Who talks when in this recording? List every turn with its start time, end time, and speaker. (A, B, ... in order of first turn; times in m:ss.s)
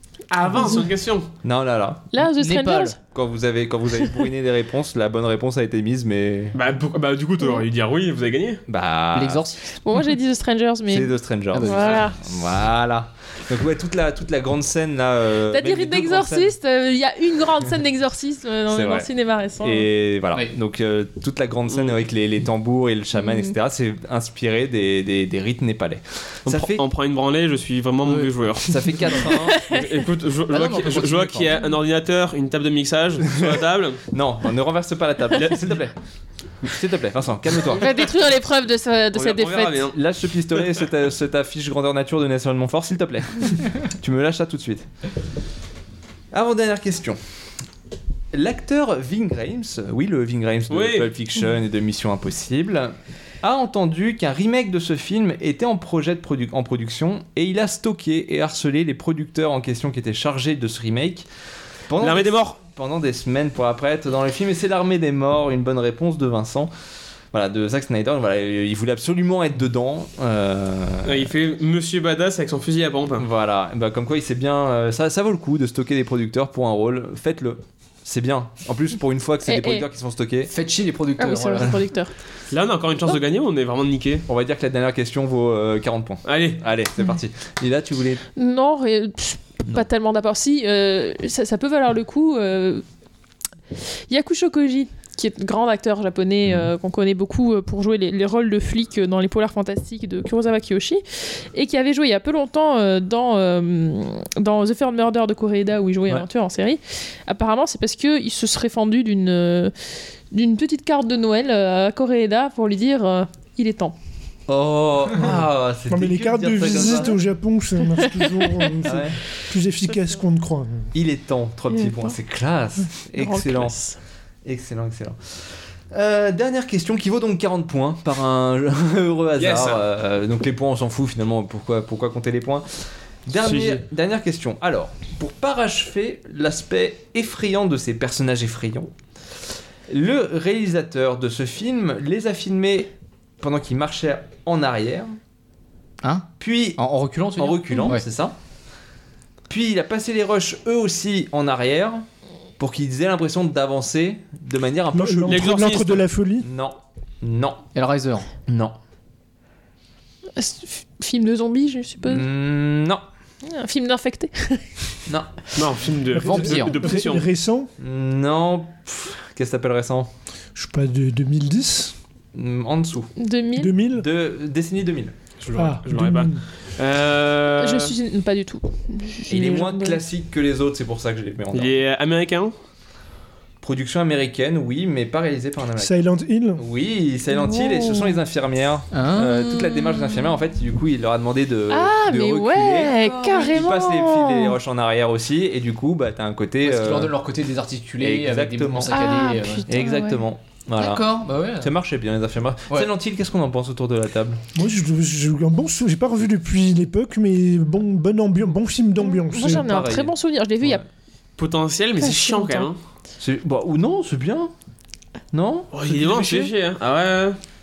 0:00.3-0:01.3 A
0:00.5-0:00.8 B
0:01.4-0:02.1 C
0:02.1-0:03.0 B
0:02.2-0:03.0 D
0:03.1-0:06.6 C
0:06.5-0:08.6 A
0:08.7-0:09.5 C
0:09.1-0:09.7 D
0:09.8-0:12.2 B
0:10.9-0:16.5 C
0:11.5-0:11.9 D
0:15.4-0:19.9 B
0:18.7-0:26.8 C
0:21.7-0:22.0 A
0:23.1-0:23.5 B
0:26.4-0:29.0 A
0:28.6-0:29.6 C
0:29.2-0:29.9 B
0:29.7-0:34.0 A
0:30.5-0:31.5 D
0:34.1-0:35.9 C
0:36.6-0:37.9 C
0:37.6-0:39.9 B
0:39.1-0:40.0 A
0:39.9-0:44.9 C
0:46.3-0:47.2 C
0:48.3-1:01.3 C
0:50.7-0:51.1 A
1:01.9-1:06.7 C
1:02.0-1:02.6 A
1:07.3-1:11.2 C
1:11.0-1:13.2 A
1:13.2-1:20.5 C
1:19.4-1:19.9 B
1:20.4-1:21.8 D
1:21.2-1:22.1 B
1:22.5-1:24.2 A
1:24.3-1:28.2 C
1:26.2-1:26.6 A
1:28.4-1:32.8 B
1:33.8-1:49.7 B
1:36.4-1:36.7 C
1:50.3-1:53.9 B
1:54.5-1:57.2 C
1:55.9-2:00.9 E
1:56.8-1:57.2 B
1:57.8-1:58.9 B
1:58.8-1:59.2 C
2:00.9-2:03.8 C
2:01.7-2:02.2 B
2:02.8-2:04.0 B
2:04.4-2:18.9 C
2:09.4-2:09.8 A
2:13.3-2:13.8 A
2:19.9-2:22.9 C
2:23.4-2:25.1 C
2:26.0-2:28.0 D
2:26.4-2:28.3 C
2:29.5-2:32.0 C
2:32.6-2:35.5 C
2:34.9-2:36.5 E
2:35.2-2:36.0 A
2:36.4-2:37.6 C
2:37.7-2:38.3 D
2:38.5-2:38.7 C
2:40.4-2:42.2 B
2:42.0-2:43.0 C
2:43.4-2:45.0 B
2:45.0-2:45.3 C
2:45.5-2:47.3 A
2:46.1-2:47.7 E
2:46.2-2:46.9 D
2:47.8-2:50.1 C
2:50.5-2:51.9 E
2:52.3-2:53.1 C
2:53.2-2:53.7 B
2:53.6-2:54.1 E
2:53.9-2:55.1 C
2:55.4-2:57.9 A
2:55.5-2:56.4 E
2:57.6-3:00.0 B
2:59.3-3:01.8 C
3:01.5-3:02.5 A
3:03.6-3:06.0 C
3:05.8-3:06.6 E
3:06.6-3:17.1 C
3:07.3-3:08.2 B
3:08.9-3:09.3 D
3:09.4-3:10.2 B
3:11.7-3:14.6 B
3:16.6-3:19.7 D
3:18.0-3:19.0 C
3:18.9-3:20.2 B
3:19.7-3:24.4 C
3:20.8-3:21.7 D
3:24.5-3:29.7 E
3:29.0-3:30.8 B
3:29.4-3:30.8 C
3:31.4-3:32.8 A
3:32.0-3:32.7 B
3:33.2-3:34.5 C
3:35.3-3:36.5 C
3:35.7-3:37.4 A